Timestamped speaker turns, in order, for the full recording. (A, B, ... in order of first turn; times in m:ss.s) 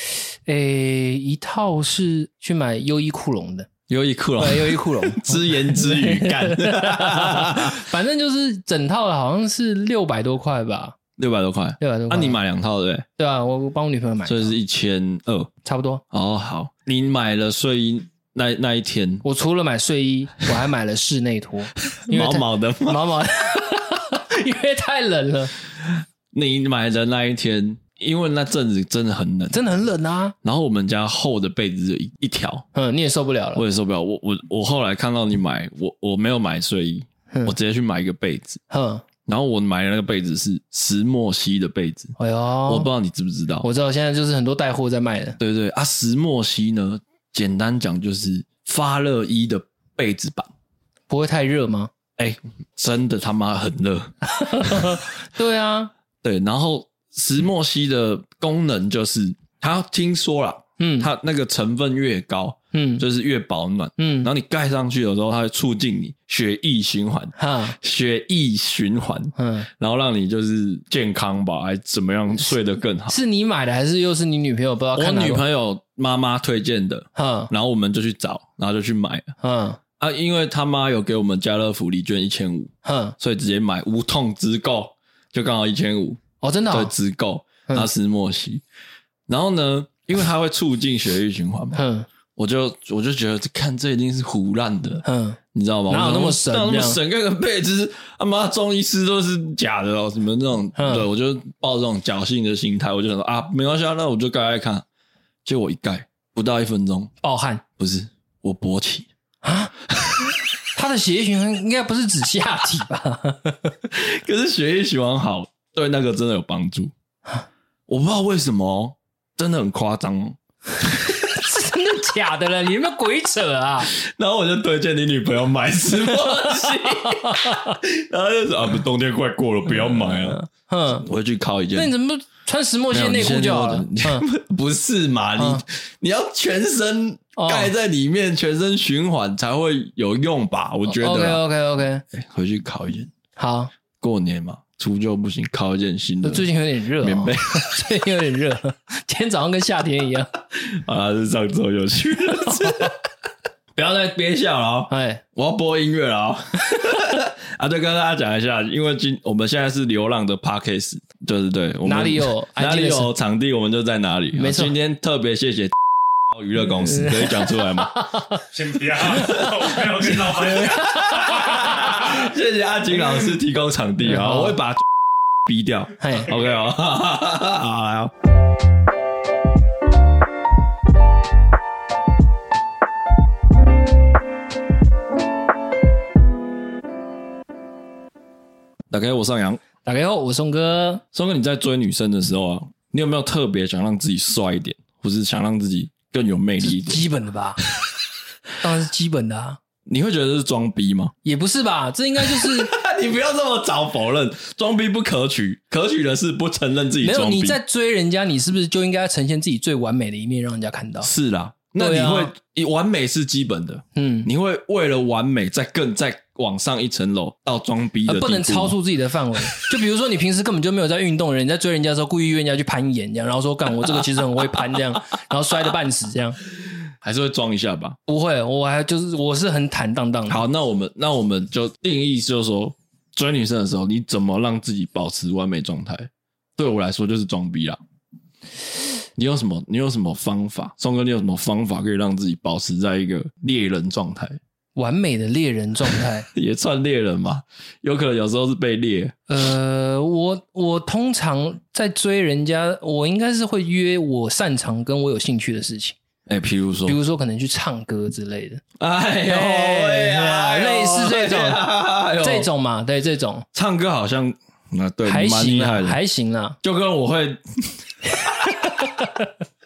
0:00.5-0:03.7 A
0:03.9-0:07.8 B
0:04.4-0:11.0 A
0:11.2-0:13.1 B
0:11.8-0:12.4 A
0:13.2-0:14.6 A
0:14.3-0:15.5 B
0:15.6-0:16.0 A
0:16.1-0:19.2 B
0:19.2-0:25.5 A
0:22.1-0:23.1 B
0:26.3-0:29.6 B
0:29.5-0:30.4 A
0:30.4-0:32.7 B
0:32.7-0:33.6 A
0:33.6-0:38.6 B
0:38.7-0:39.0 A
0:39.3-0:42.2 B
0:42.2-0:42.9 A
0:42.7-0:43.7 B
0:43.6-0:45.4 A
0:45.4-0:50.5 B
0:51.1-0:51.9 A
0:52.2-0:55.0 B
0:54.3-0:55.9 A
0:56.2-1:13.2 B
1:00.8-1:01.1 A
1:02.7-1:03.0 A
1:04.0-1:04.3 A
1:07.4-1:07.8 A
1:09.4-1:09.7 A
1:13.1-1:15.4 A
1:15.0-1:19.3 B
1:17.2-1:17.5 A
1:19.4-1:19.8 A
1:20.0-1:28.6 B
1:22.8-1:23.2 A
1:26.4-1:26.9 A
1:29.3-1:31.8 B
1:31.7-1:32.1 A
1:32.4-1:44.8 B
1:35.0-1:37.0 A
1:40.8-1:41.1 A
1:45.4-1:47.1 B
1:47.2-1:47.6 A
1:47.8-1:49.1 B
1:49.4-1:49.7 A
1:50.7-1:53.7 A
1:53.9-1:56.9 B
1:57.9-2:00.9 B
2:00.9-2:03.9 A
2:03.9-2:10.4 B
2:06.1-2:06.5 A
2:07.0-2:07.8 A
2:09.8-2:11.1 A
2:11.0-2:11.9 B
2:11.8-2:14.2 A
2:12.9-2:21.4 B
2:15.4-2:15.6 A
2:17.4-2:17.7 A
2:20.9-2:22.0 A
2:22.1-2:23.1 B
2:23.4-2:23.7 A
2:24.0-2:26.5 B
2:26.2-2:30.3 A
2:27.0-2:27.8 B
2:30.6-2:33.0 B
2:32.6-2:32.9 A
2:33.8-2:48.1 B
2:34.9-2:35.2 A
2:41.8-2:43.1 A
2:44.4-2:44.7 A
2:46.9-2:48.4 A
2:48.5-2:50.8 C
2:49.0-2:54.9 B
2:49.1-2:49.5 A
2:50.2-2:52.2 A
2:54.0-2:54.6 A
2:55.4-2:58.1 B
2:56.0-2:56.4 A
3:08.9-3:09.6 B
3:09.8-3:11.0 A
3:11.1-3:17.0 B
3:16.6-3:17.6 A
3:18.6-3:19.6 A
3:19.9-3:21.1 B
3:21.2-3:22.7 A
3:22.2-3:27.6 B
3:27.0-3:31.1 A
3:31.0-3:38.8 B
3:31.8-3:32.3 A
3:34.0-3:34.3 A
3:38.1-3:46.4 A
3:47.0-3:48.0 B
3:48.1-3:50.4 A
3:50.3-3:57.8 B
3:59.2-4:04.4 B
4:04.8-4:06.3 A
4:06.3-4:09.2 B
4:09.3-4:16.0 A
4:16.3-4:17.0 B
4:16.9-4:18.6 A
4:18.8-4:22.5 B
4:19.3-4:21.6 A
4:22.2-4:23.5 A
4:23.5-4:26.0 B
4:25.0-4:26.6 A
4:26.6-4:28.6 B
4:28.2-4:29.3 A